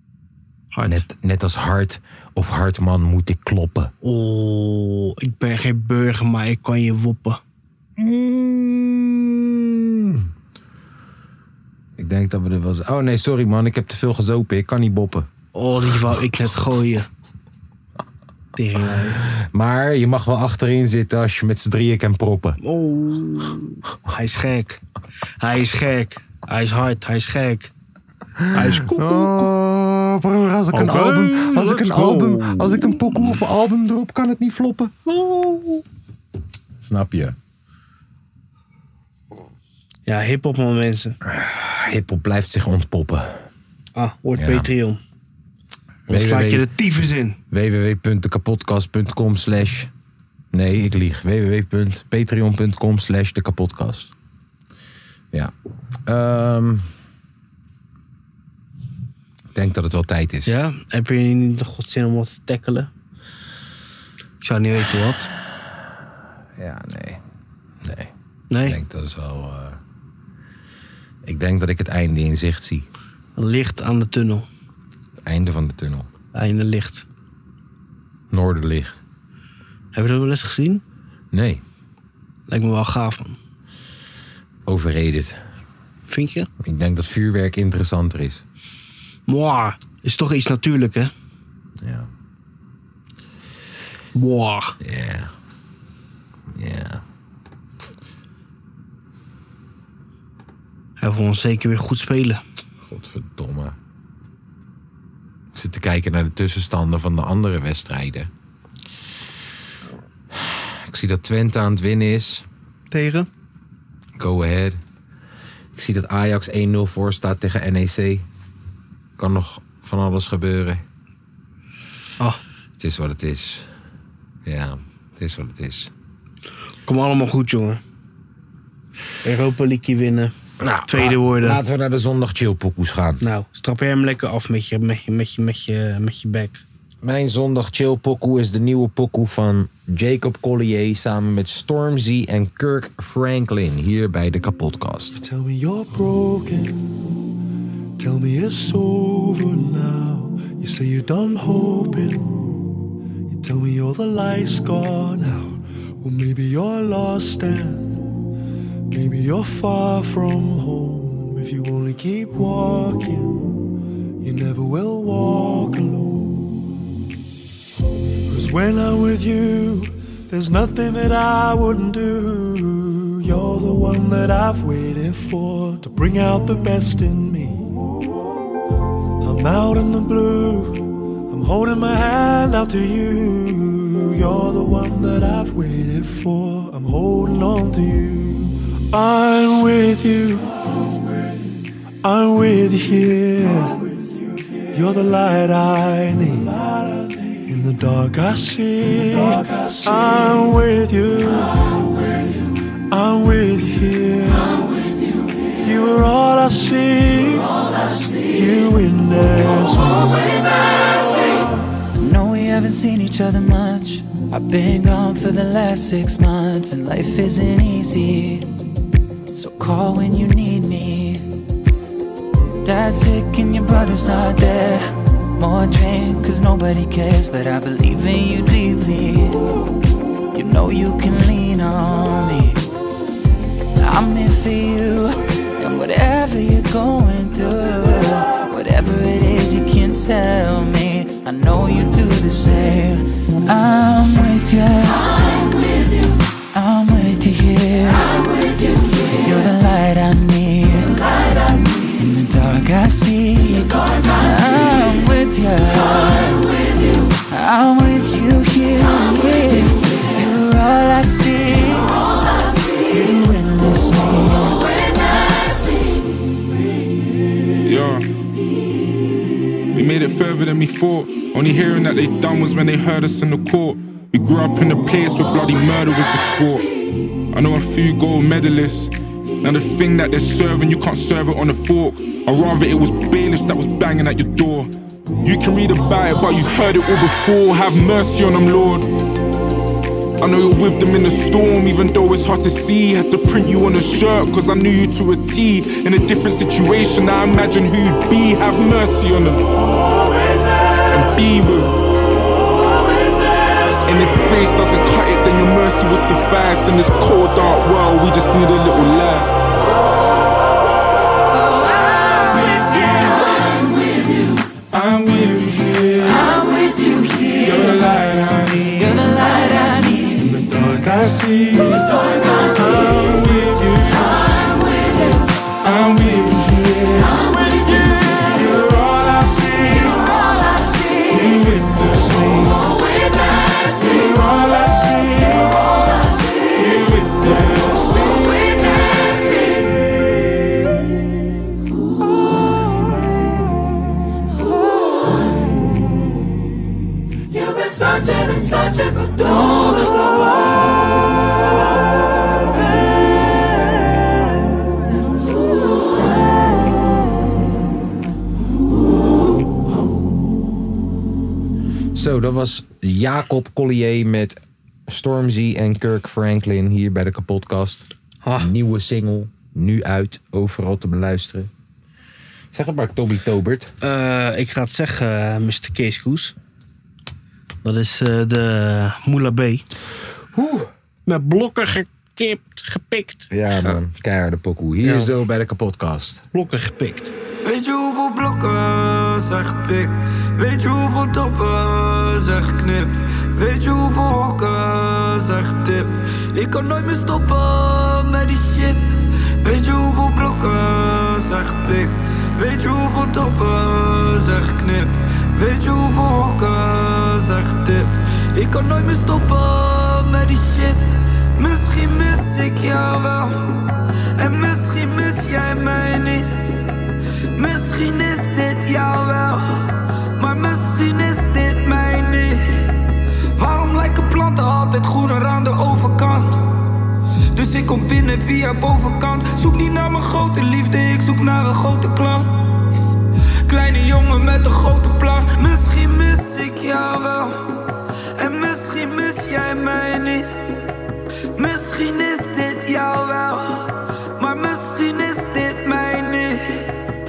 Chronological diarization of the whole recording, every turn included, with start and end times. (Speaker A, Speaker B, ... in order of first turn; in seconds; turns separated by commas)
Speaker A: 0.7-3.9, Speaker B: 4.0-7.4, Speaker A: 8.0-10.3, Speaker A: 12.0-15.3, Speaker B: 15.5-17.1, Speaker B: 18.6-19.2, Speaker A: 19.0-22.6, Speaker B: 22.6-24.8, Speaker B: 25.4-27.7, Speaker A: 28.4-35.8, Speaker B: 28.5-29.5, Speaker B: 30.7-33.0, Speaker A: 36.8-37.4, Speaker B: 40.0-41.2, Speaker A: 41.2-43.4, Speaker B: 44.0-45.0, Speaker A: 44.3-44.7, Speaker A: 46.1-46.7, Speaker B: 46.1-47.4, Speaker A: 47.5-49.9, Speaker A: 50.5-54.1, Speaker A: 56.1-56.9, Speaker A: 59.5-60.5, Speaker B: 60.5-62.9, Speaker B: 64.4-65.3, Speaker A: 66.6-67.2, Speaker A: 67.8-69.8, Speaker B: 68.5-68.8, Speaker A: 71.2-72.8, Speaker B: 73.3-74.5, Speaker A: 75.2-76.1, Speaker B: 76.3-77.0, Speaker A: 78.3-79.0, Speaker B: 79.9-80.8, Speaker A: 81.3-81.6, Speaker B: 82.5-83.4, Speaker A: 84.7-85.4, Speaker B: 86.1-86.5, Speaker A: 86.6-88.4, Speaker B: 89.3-91.1, Speaker A: 91.8-92.1, Speaker B: 94.1-94.8, Speaker A: 94.8-95.3, Speaker A: 96.5-97.0, Speaker B: 101.0-102.4, Speaker A: 102.8-103.8, Speaker A: 105.5-108.3, Speaker A: 110.3-112.5, Speaker B: 112.9-113.3, Speaker A: 114.2-114.8, Speaker A: 115.7-118.2, Speaker A: 119.2-120.8, Speaker A: 122.8-123.7, Speaker A: 124.4-125.9, Speaker B: 126.8-127.8, Speaker B: 129.2-130.3, Speaker A: 130.6-133.3, Speaker B: 130.9-131.6, Speaker B: 133.2-136.6, Speaker A: 137.0-145.2, Speaker C: 145.2-146.9, Speaker C: 148.0-158.2, Speaker C: 158.9-166.6, Speaker C: 168.3-177.7, Speaker C: 179.2-190.4, Speaker C: 192.0-194.0, Speaker C: 194.7-201.6, Speaker C: 202.9-204.7, Speaker C: 205.6-207.5, Speaker C: 208.2-210.3, Speaker D: 212.0-218.5, Speaker D: 219.3-221.2, Speaker D: 222.6-229.4, Speaker D: 230.3-232.6, Speaker D: 233.8-245.5, Speaker D: 246.5-256.5, Speaker D: 257.2-262.0, Speaker D: 262.7-264.7, Speaker E: 267.6-268.0, Speaker E: 269.7-276.7, Speaker E: 277.3-284.7, Speaker E: 285.2-288.9, Speaker E: 290.2-299.5, Speaker E: 300.9-301.8, Speaker E: 303.8-309.3, Speaker D: 311.9-313.0, Speaker E: 314.7-316.3, Speaker D: 316.1-317.7, Speaker E: 317.4-318.9, Speaker D: 318.8-320.2, Speaker E: 320.3-324.2, Speaker E: 325.6-330.0, Speaker E: 331.1-332.8, Speaker E: 333.7-335.5, Speaker E: 336.6-338.3, Speaker A: 361.9-371.5, Speaker B: 368.2-368.5, Speaker A: 372.5-373.7, Speaker B: 373.8-376.3, Speaker B: 377.6-379.6, Speaker A: 380.3-380.7, Speaker B: 381.1-383.8, Speaker A: 383.3-386.2, Speaker B: 384.8-385.1, Speaker B: 386.3-387.1, Speaker F: 387.4-410.8, Speaker F: 411.4-416.4, Speaker F: 417.3-422.4, Speaker F: 423.3-426.4, Speaker F: 427.3-432.3, Speaker F: 433.4-440.4, Speaker F: 441.3-446.7